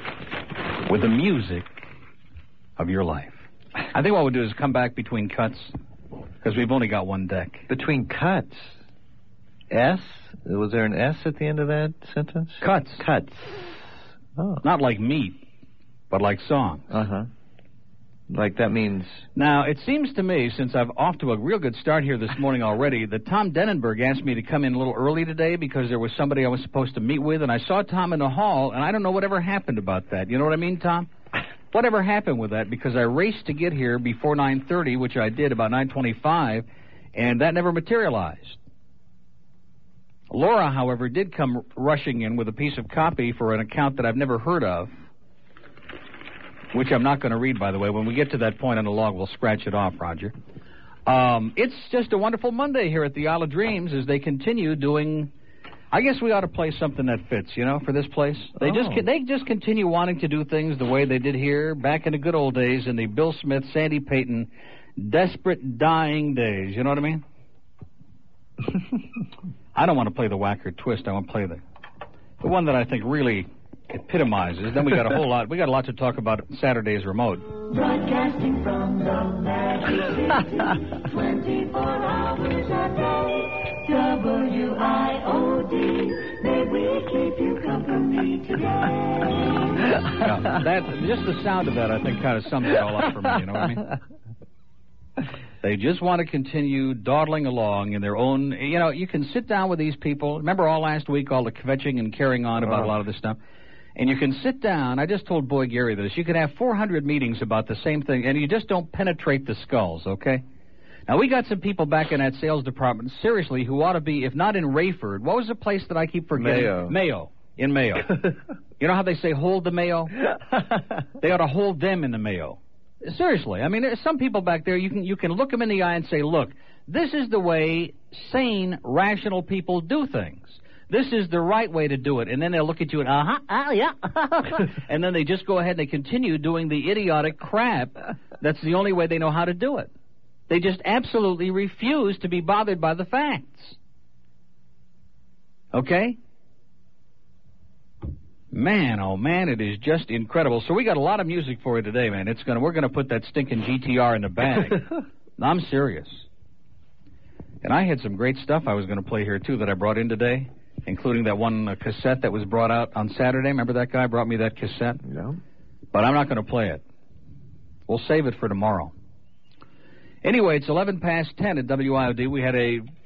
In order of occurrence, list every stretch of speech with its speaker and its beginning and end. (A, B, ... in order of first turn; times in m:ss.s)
0:00.8-0:01.8 A
0:02.8-0:05.7 A
0:06.4-0:07.7 A
0:07.7-0:08.8 B
0:09.7-0:14.6 B
0:12.6-0:13.0 A
0:14.6-0:15.4 A
0:16.1-0:16.9 A
0:16.9-0:17.3 B
0:18.3-0:19.2 B
0:19.4-0:31.1 A
0:31.7-0:38.6 A
0:40.3-0:45.0 A
0:46.7-0:50.3 A
0:51.1-0:55.3 A
0:55.9-1:07.2 A
0:58.6-0:59.0 B
1:09.8-1:11.6 A
1:12.4-1:17.5 A
1:17.7-1:29.4 C
1:30.2-1:33.8 A
1:35.6-1:43.4 A
1:42.6-1:42.9 B
1:44.0-1:50.4 A
1:51.1-1:58.2 A
1:56.4-1:56.9 B
1:58.8-2:00.1 A
2:01.2-2:19.9 A
2:20.5-2:23.8 A
2:25.7-2:26.2 A
2:28.5-2:34.8 A
2:35.4-2:36.3 A
2:37.6-2:45.0 A
2:45.0-2:45.4 B
2:45.9-2:46.8 A
2:47.9-2:48.9 A
2:50.2-2:52.9 A